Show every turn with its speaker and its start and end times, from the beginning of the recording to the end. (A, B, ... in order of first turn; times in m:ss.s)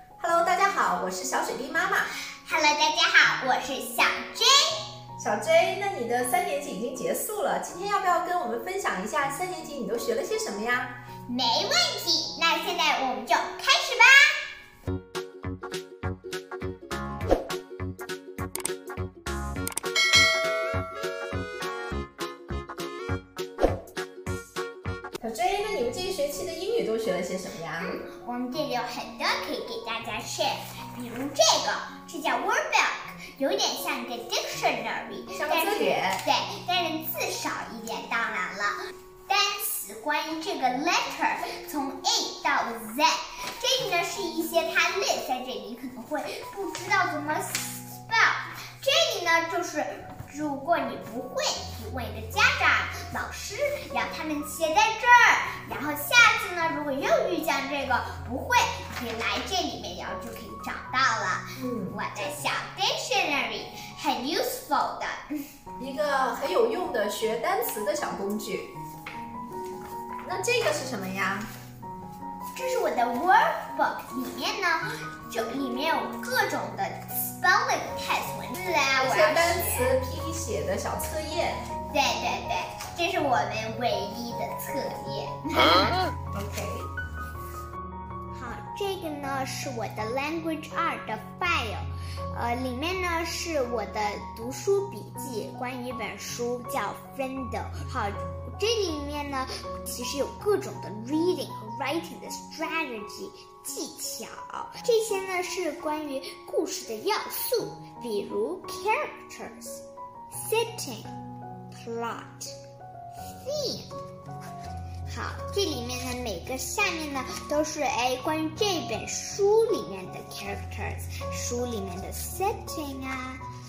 0:00.2-0:02.1 A
0:02.4-0:04.8 B
0:05.2-0:11.0 A
0:11.3-0:14.4 B
0:25.2-0:28.0 A
0:27.8-0:38.8 B
0:35.3-0:36.2 A
0:39.3-1:05.4 B
1:01.6-1:02.0 A
1:05.8-1:08.7 A
1:10.2-1:11.5 A
1:12.5-1:19.9 B
1:19.0-1:21.7 A
1:21.9-1:26.0 B
1:26.3-1:26.9 A
1:28.3-1:51.1 B
1:51.7-1:52.6 B
1:53.3-1:53.9 B
1:55.1-2:03.4 B